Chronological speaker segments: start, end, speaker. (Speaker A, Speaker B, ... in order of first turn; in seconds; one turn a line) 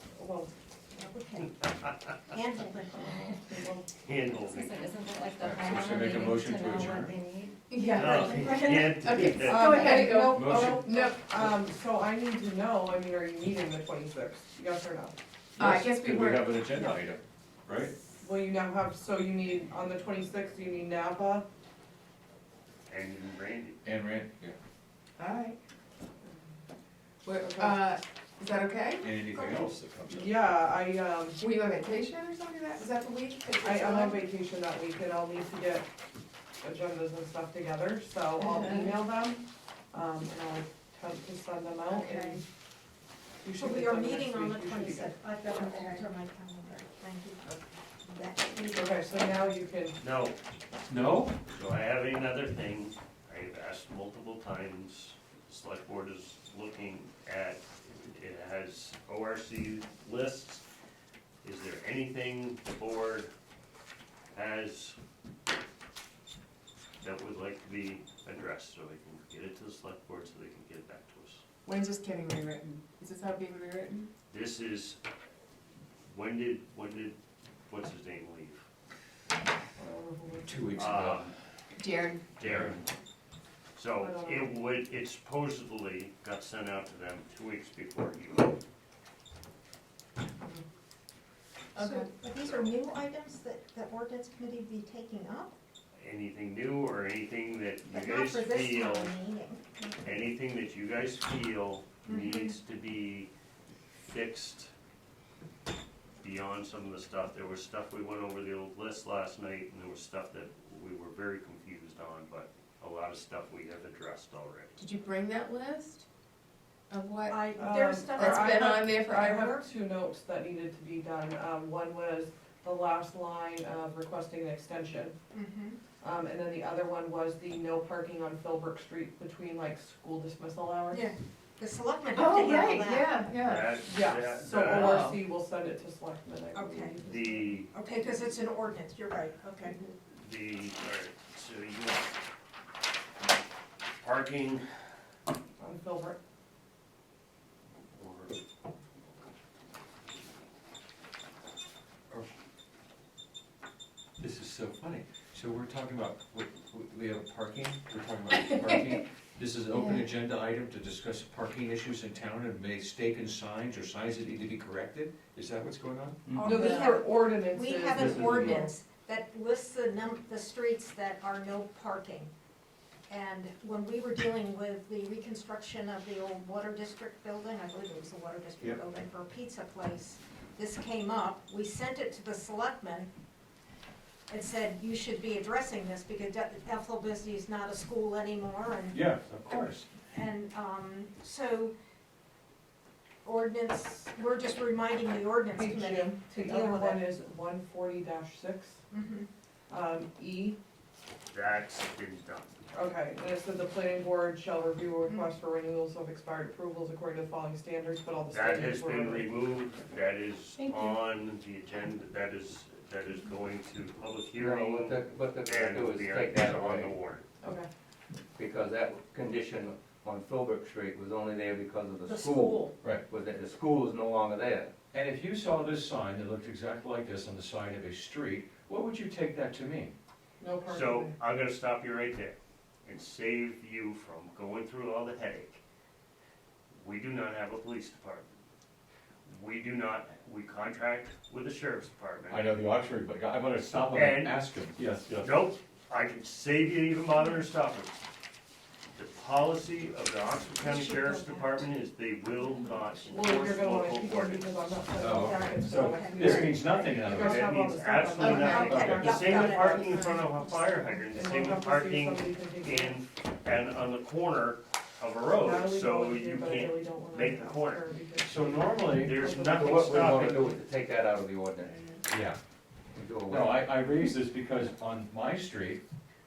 Speaker A: 0.2-0.5
Speaker B: 0.9-1.5
Speaker B: 2.3-3.4
Speaker A: 2.9-3.9
Speaker C: 4.0-4.8
Speaker D: 4.5-7.6
Speaker E: 5.4-7.1
Speaker F: 7.7-11.2
Speaker C: 7.8-10.2
Speaker A: 9.4-15.2
Speaker E: 10.3-10.9
Speaker E: 15.6-17.9
Speaker F: 15.6-16.6
Speaker A: 18.2-21.4
Speaker C: 22.9-23.8
Speaker E: 23.8-24.6
Speaker F: 25.2-25.6
Speaker F: 27.2-29.1
Speaker A: 27.4-27.8
Speaker E: 29.0-30.4
Speaker A: 30.1-31.4
Speaker F: 31.4-34.2
Speaker A: 33.6-35.9
Speaker A: 36.6-42.3
Speaker F: 38.4-39.0
Speaker F: 41.9-42.4
Speaker B: 42.0-42.4
Speaker A: 43.4-45.1
Speaker B: 43.6-49.3
Speaker A: 48.7-50.0
Speaker C: 50.0-50.4
Speaker E: 50.9-51.4
Speaker C: 51.5-60.6
Speaker C: 61.4-63.3
Speaker C: 64.3-65.0
Speaker C: 67.0-71.4
Speaker F: 71.7-74.1
Speaker C: 74.3-75.0
Speaker C: 76.1-77.2
Speaker C: 77.7-78.7
Speaker A: 79.8-80.8
Speaker E: 80.4-81.3
Speaker C: 80.8-81.3
Speaker F: 81.8-82.3
Speaker C: 82.4-82.9
Speaker E: 82.4-82.8
Speaker C: 83.8-88.5
Speaker A: 84.0-84.5
Speaker F: 91.8-92.1
Speaker B: 91.8-95.5
Speaker C: 92.4-92.7
Speaker C: 96.0-99.1
Speaker B: 97.9-100.2
Speaker C: 100.0-103.3
Speaker B: 102.1-102.6
Speaker C: 104.1-104.7
Speaker C: 106.2-114.8
Speaker F: 114.8-116.0
Speaker F: 116.9-117.4
Speaker B: 117.3-119.7
Speaker A: 117.6-125.2
Speaker F: 118.2-119.3
Speaker B: 125.3-125.8
Speaker A: 126.0-131.1
Speaker B: 130.9-133.1
Speaker F: 132.2-133.8
Speaker C: 133.4-135.1
Speaker A: 133.8-137.6
Speaker F: 134.8-135.2
Speaker B: 136.5-137.0
Speaker C: 137.1-137.7
Speaker B: 137.7-139.8
Speaker C: 140.1-142.2
Speaker C: 144.0-144.9
Speaker A: 145.6-146.2
Speaker C: 147.9-148.3
Speaker E: 154.2-166.3
Speaker F: 159.7-160.1
Speaker F: 166.3-166.9
Speaker A: 166.4-168.7
Speaker B: 166.6-172.3
Speaker E: 168.0-168.4
Speaker B: 173.1-183.1
Speaker B: 184.3-189.1
Speaker E: 188.9-189.9
Speaker B: 190.1-191.7
Speaker B: 193.2-197.0
Speaker A: 195.6-198.8
Speaker B: 198.9-199.3
Speaker A: 199.7-200.6
Speaker C: 201.3-202.6
Speaker A: 202.7-209.3
Speaker B: 205.0-205.3
Speaker C: 208.3-217.2
Speaker D: 210.6-210.9
Speaker G: 214.4-216.9
Speaker A: 217.4-217.7
Speaker G: 218.4-224.7
Speaker B: 222.1-222.7
Speaker E: 224.9-229.9
Speaker A: 230.4-231.2
Speaker C: 230.7-235.6
Speaker C: 236.7-238.4
Speaker C: 239.3-242.5
Speaker E: 242.3-245.3
Speaker C: 243.7-244.4
Speaker C: 245.1-248.0
Speaker C: 248.9-254.8
Speaker B: 250.5-251.7
Speaker A: 253.1-259.3
Speaker E: 255.0-257.5
Speaker B: 255.1-257.0
Speaker C: 257.1-267.8
Speaker F: 258.2-260.3
Speaker B: 258.4-260.2
Speaker E: 258.6-259.1
Speaker A: 261.1-263.0
Speaker A: 265.4-269.7
Speaker E: 268.2-269.4
Speaker C: 268.9-270.5
Speaker G: 269.5-272.0
Speaker E: 272.1-272.4
Speaker G: 272.9-273.5
Speaker E: 273.3-275.8